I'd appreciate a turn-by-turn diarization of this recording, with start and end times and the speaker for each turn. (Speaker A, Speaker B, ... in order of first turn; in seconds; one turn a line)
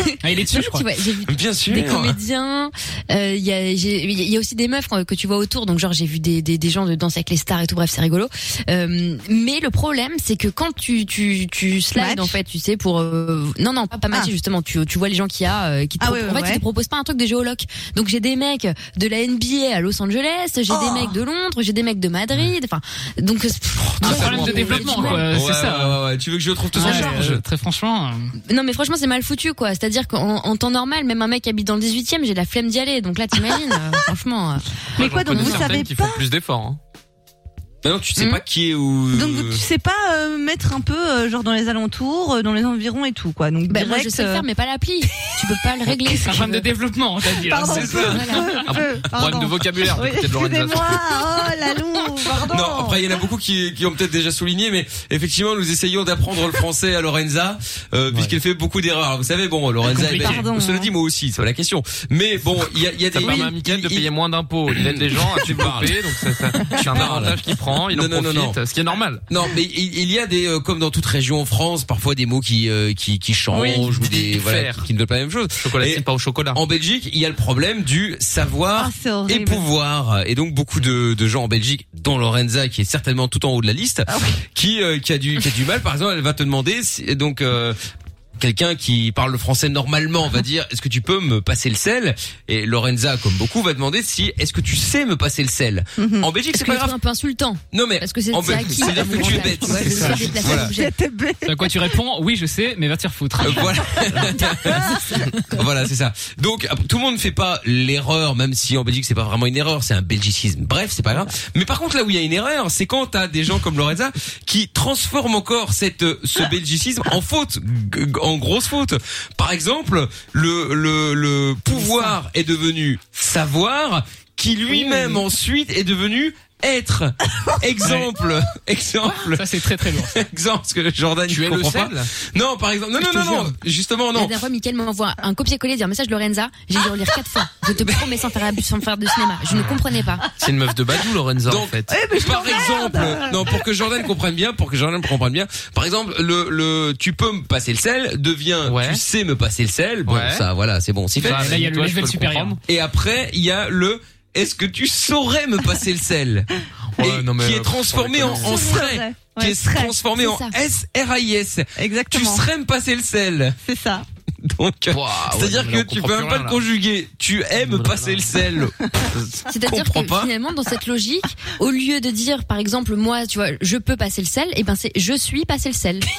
Speaker A: 0.2-0.9
Speaker B: 0.5-25.3
Speaker C: 1.3-2.2
Speaker D: 11.9-12.4
Speaker D: 16.0-16.6
Speaker D: 20.7-21.2
Speaker C: 23.8-27.4
Speaker A: 24.1-26.0
Speaker E: 24.2-24.9
Speaker D: 24.7-25.0
Speaker A: 26.7-28.3
Speaker B: 28.5-34.7
Speaker D: 35.0-36.2
Speaker E: 35.0-36.8
Speaker B: 35.3-35.7
Speaker C: 37.8-39.6
Speaker D: 39.1-44.5
Speaker B: 43.7-46.7
Speaker A: 46.2-48.2
Speaker D: 47.3-53.0
Speaker C: 47.6-48.3
Speaker B: 48.0-48.5
Speaker E: 48.7-51.2
Speaker C: 52.3-64.1
Speaker E: 58.1-58.4
Speaker D: 59.9-60.9
Speaker A: 60.0-60.5
Speaker E: 63.1-69.2
Speaker C: 64.7-66.0
Speaker C: 66.6-68.6
Speaker C: 69.3-87.8
Speaker D: 73.5-73.9
Speaker E: 73.6-74.9
Speaker E: 75.6-76.6
Speaker D: 78.8-79.7
Speaker D: 84.1-84.4
Speaker C: 88.4-97.0
Speaker D: 96.0-96.3
Speaker B: 96.5-100.9
Speaker C: 97.7-100.7
Speaker A: 99.9-100.4
Speaker D: 100.5-102.0
Speaker A: 101.5-103.9
Speaker C: 103.4-134.3
Speaker B: 104.3-105.6
Speaker D: 104.7-105.0
Speaker B: 121.7-122.1
Speaker B: 124.7-125.2
Speaker A: 129.2-130.2
Speaker E: 131.3-132.1
Speaker B: 133.0-133.5
Speaker B: 134.1-140.3
Speaker C: 137.7-138.1
Speaker E: 140.4-141.9
Speaker C: 141.5-151.6
Speaker D: 141.9-143.5
Speaker E: 148.7-149.0
Speaker E: 150.1-150.4
Speaker E: 151.2-152.6
Speaker A: 151.3-152.6
Speaker C: 152.7-156.5
Speaker E: 157.0-158.7
Speaker C: 157.0-163.6
Speaker D: 158.2-160.0
Speaker B: 160.2-160.6
Speaker D: 161.8-162.5
Speaker D: 163.7-164.1
Speaker C: 164.4-168.8
Speaker E: 164.9-166.6
Speaker E: 167.6-168.4
Speaker E: 169.1-169.4
Speaker B: 169.5-176.1
Speaker C: 169.6-170.3